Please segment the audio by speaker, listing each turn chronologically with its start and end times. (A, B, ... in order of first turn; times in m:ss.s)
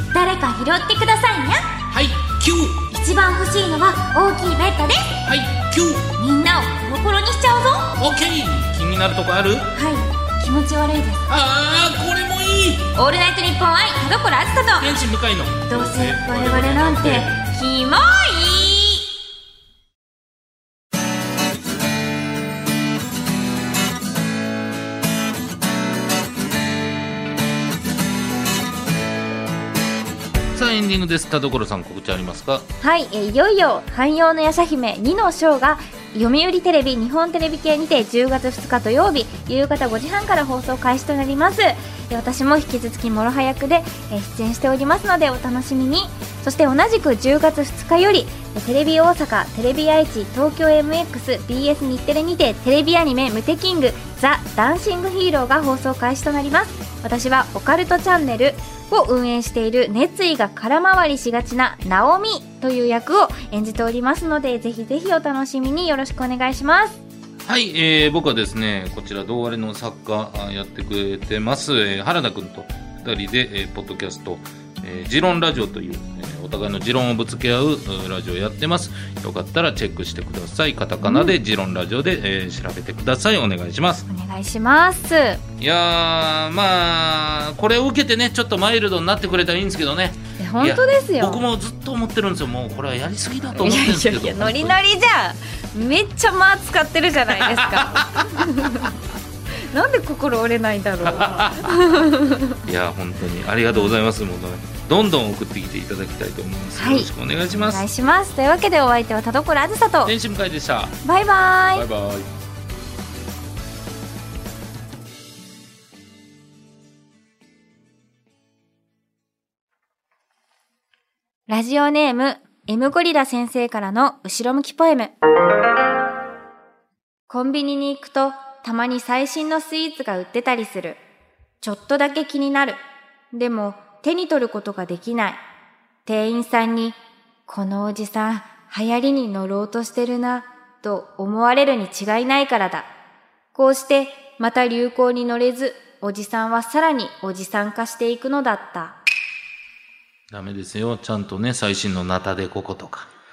0:00.1-0:01.7 A
0:01.9-0:02.8 B
0:02.9-0:05.2 A
0:05.2-0:06.1 B
0:06.2-0:08.0 A
0:08.0-0:09.7 B
0:09.7-0:11.3 A
0:11.3-0:12.9 B
0:13.0-0:14.9 A
0:14.8-0:17.4 B
0:15.7-0:19.1 A
0:30.5-0:32.6 B
0:32.8-1:07.0 A
1:07.4-1:24.0 B
1:21.0-1:21.3 A
1:24.1-1:25.4 A
1:25.6-1:34.8 B
1:30.4-1:31.4 A
1:33.5-1:39.0 A
1:37.4-1:38.6 B
1:39.7-1:42.6 A
1:41.0-1:41.8 B
1:42.6-1:47.8 B
1:43.7-1:44.0 A
1:46.8-1:50.1 A
1:50.0-1:50.9 B
1:51.0-1:51.9 A
1:51.7-1:52.3 B
2:01.5-2:05.1 A
2:07.3-2:11.0 A
2:11.6-2:12.8 A
2:13.3-2:15.4 A
2:16.0-2:22.9 A
2:23.5-2:29.0 A
2:30.3-2:33.1 B